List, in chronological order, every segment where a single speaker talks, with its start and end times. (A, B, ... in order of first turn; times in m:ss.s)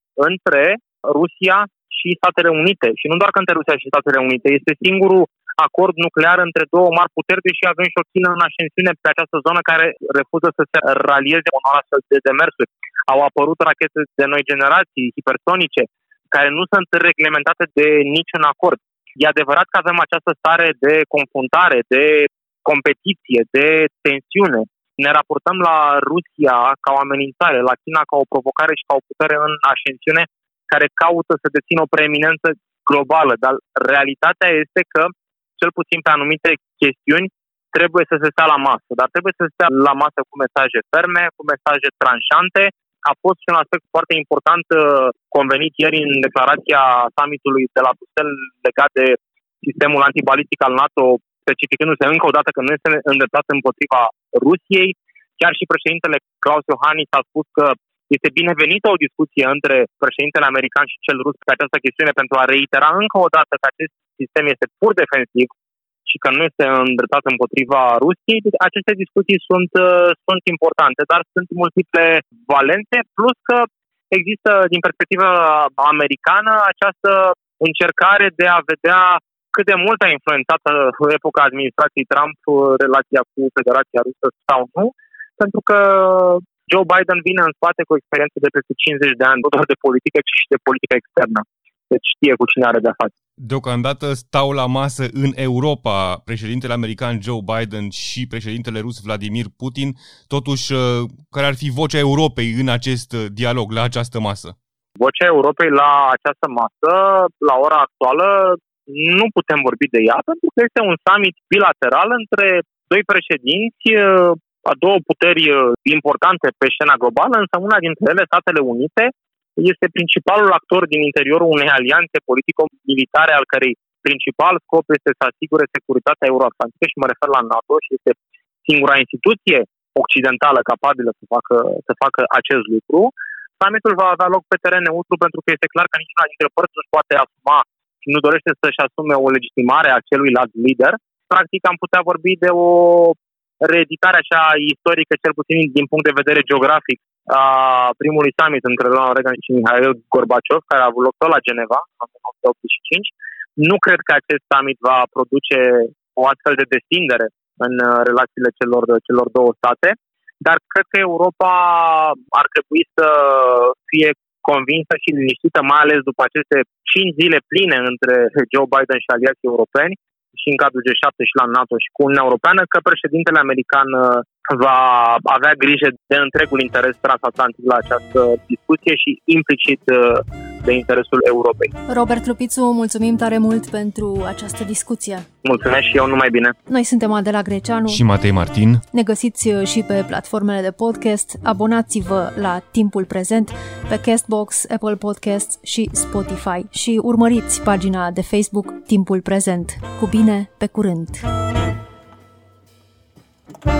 0:00.2-1:05.5 A
1:06.0-1:33.1 A
1:33.4-1:44.5 B
1:45.0-3:01.7 A
3:01.9-3:05.3 C
3:05.4-3:06.6 A
3:06.7-3:08.0 C
3:07.9-3:08.8 B
3:08.9-3:21.2 C